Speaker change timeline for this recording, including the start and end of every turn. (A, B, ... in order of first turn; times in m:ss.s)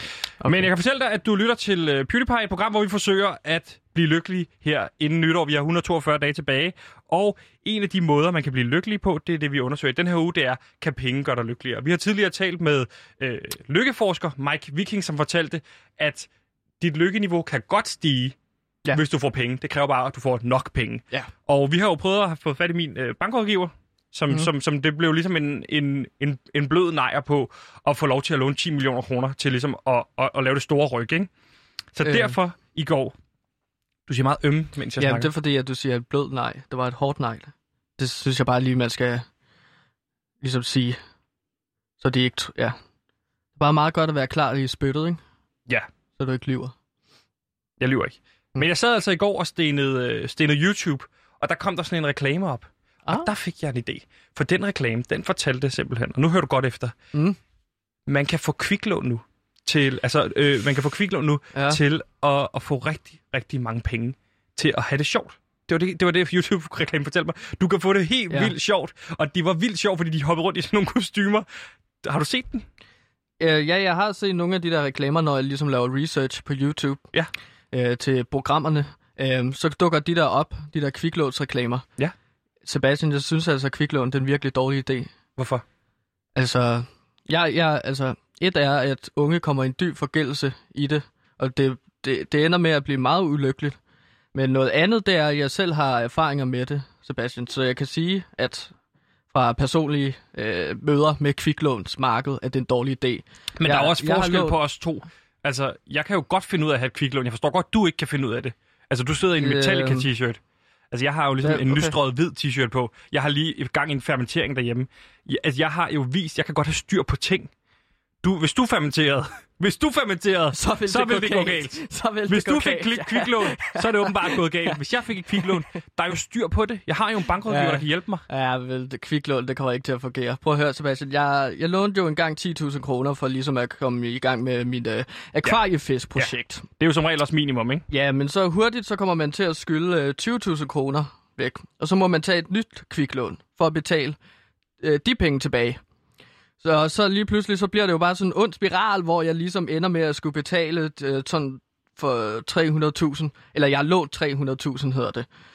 0:00.4-0:16.3 A
0:16.8-0:18.3 A
0:18.9-0:31.3 A
0:31.9-0:33.1 A
0:32.0-0:32.4 B
0:34.1-0:35.3 A
0:35.0-0:39.2 B
0:40.4-0:41.0 B
0:42.0-0:42.8 B
0:43.6-0:45.2 B
0:46.2-0:46.7 B
0:47.8-0:56.9 A
0:58.1-1:11.4 A
1:01.5-1:01.8 B
1:12.0-1:12.6 A
1:13.4-1:17.0 B
1:17.7-1:21.8 B
1:22.6-1:25.1 B
1:25.4-1:25.6 A
1:26.4-1:33.8 B
1:34.3-1:38.7 B
1:39.3-1:44.6 B
1:43.6-1:57.5 A
1:49.4-1:50.1 B
1:51.4-1:51.9 B
1:58.2-2:08.2 A
2:00.5-2:04.8 B
2:07.4-2:16.6 B
2:16.2-2:17.8 A
2:17.9-2:24.2 B
2:24.8-2:25.8 B
2:26.6-2:35.2 B